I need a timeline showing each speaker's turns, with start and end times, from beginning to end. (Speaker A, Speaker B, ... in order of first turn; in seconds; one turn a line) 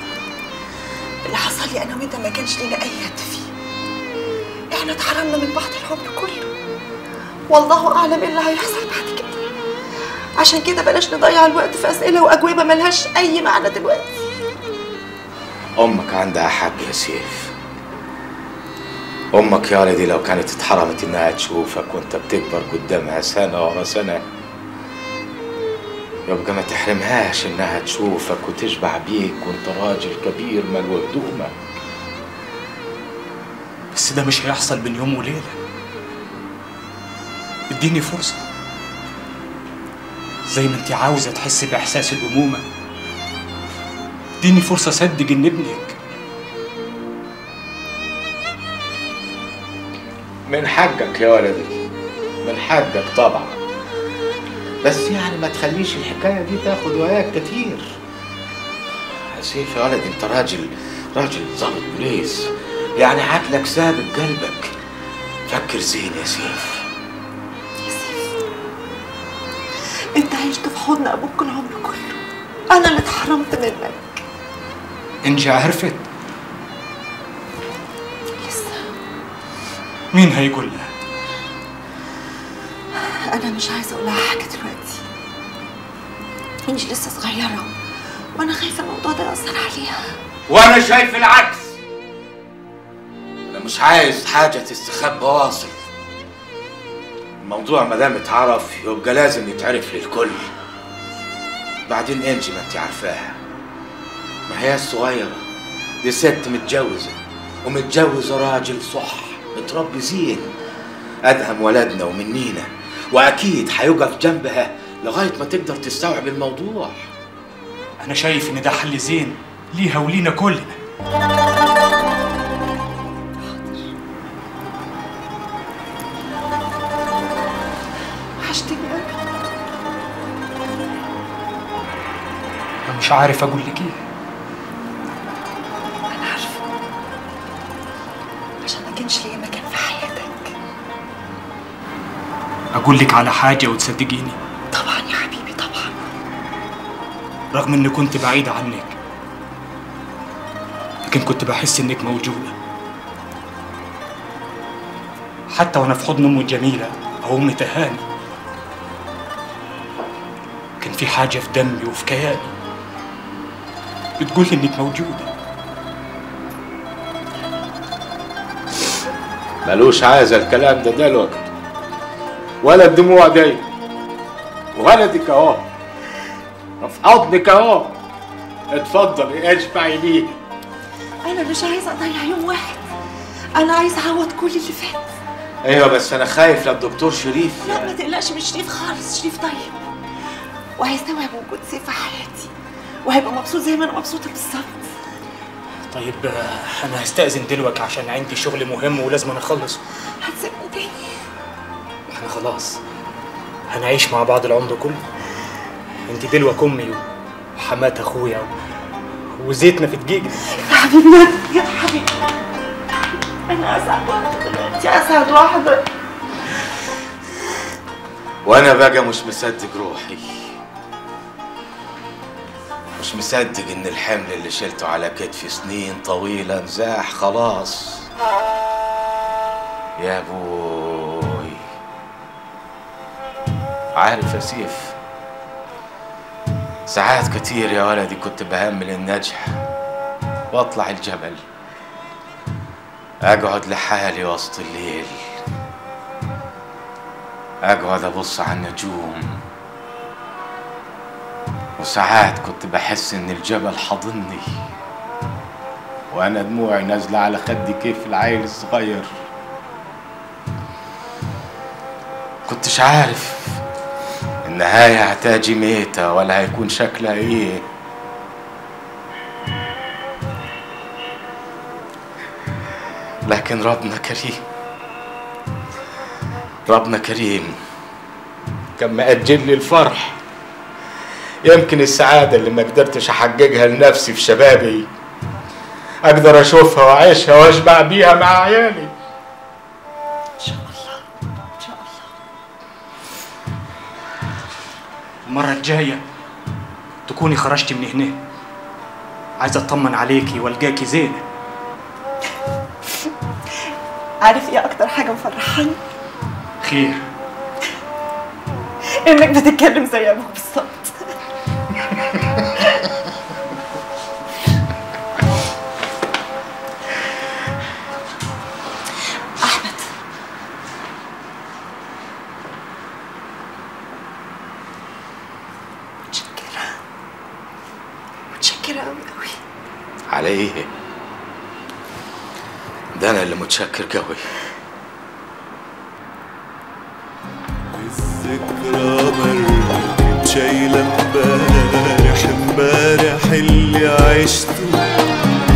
Speaker A: 1.2-3.5
Speaker A: 4.7-6.5
Speaker A: 7.5-9.5
Speaker A: 10.4-14.2
Speaker B: 15.8-17.6
Speaker B: 19.3-24.2
Speaker B: 26.3-31.6
Speaker C: 33.9-35.6
Speaker C: 37.7-38.4
Speaker C: 40.5-42.6
Speaker C: 44.4-46.0
Speaker B: 50.5-51.8
Speaker B: 52.4-53.6
Speaker B: 54.8-58.0
Speaker B: 59.2-64.7
Speaker B: 65.5-66.9
Speaker A: 67.8-68.4
Speaker A: 70.2-72.2
Speaker A: 72.7-74.2
Speaker C: 75.2-76.0
Speaker A: 78.4-78.9
Speaker C: 80.1-80.9
Speaker A: 82.9-85.0
Speaker A: 86.7-87.7
Speaker A: 88.3-90.2
Speaker B: 90.5-91.8
Speaker B: 93.5-95.9
Speaker B: 97.4-100.5
Speaker B: 101.9-103.4
Speaker B: 104.5-105.5
Speaker B: 106.0-110.5
Speaker B: 111.2-117.1
Speaker C: 118.0-120.8
Speaker A: 123.4-123.9
Speaker A: 128.4-129.2
Speaker C: 132.9-134.0
Speaker A: 136.1-136.7
Speaker A: 138.6-140.5
Speaker C: 142.8-144.4
Speaker A: 144.7-146.0
Speaker C: 147.5-148.9
Speaker C: 151.1-152.6
Speaker C: 155.5-158.1
Speaker C: 160.8-162.5
Speaker C: 164.2-165.3
Speaker B: 169.7-171.5
Speaker B: 172.6-173.7
Speaker B: 174.8-175.7
Speaker B: 176.8-177.9
Speaker B: 178.7-180.3
Speaker A: 181.2-182.9
Speaker A: 183.6-185.1
Speaker B: 185.6-188.0
Speaker A: 187.6-189.8
Speaker A: 190.8-192.5
Speaker A: 193.0-194.9
Speaker C: 195.9-199.8
Speaker A: 200.2-201.2
Speaker C: 202.1-202.8
Speaker C: 203.7-205.0
Speaker C: 206.1-208.5
Speaker C: 209.3-210.4
Speaker A: 210.5-212.2
Speaker A: 213.5-215.9
Speaker B: 218.4-220.3
Speaker B: 223.0-228.1
Speaker B: 230.0-231.6
Speaker B: 234.0-235.0
Speaker B: 236.9-239.6
Speaker B: 240.5-241.4
Speaker B: 243.2-245.3
Speaker B: 247.7-249.4
Speaker B: 251.8-254.5
Speaker B: 256.1-259.1
Speaker B: 262.5-263.6
Speaker B: 264.4-267.7
Speaker B: 273.3-274.4
Speaker B: 276.7-277.6
Speaker B: 278.8-280.2
Speaker B: 281.4-284.9
Speaker B: 286.0-288.9
Speaker A: 290.4-292.1
Speaker C: 295.2-296.0
Speaker C: 297.1-298.2
Speaker C: 299.4-301.2
Speaker A: 302.9-303.7
Speaker A: 304.2-305.8
Speaker C: 306.6-307.1
Speaker A: 309.0-311.1
Speaker A: 311.7-313.0
Speaker A: 319.4-319.9
Speaker A: 326.1-326.8
Speaker A: 328.3-329.4
Speaker B: 330.1-330.7
Speaker B: 333.0-334.4
Speaker D: 337.7-345.0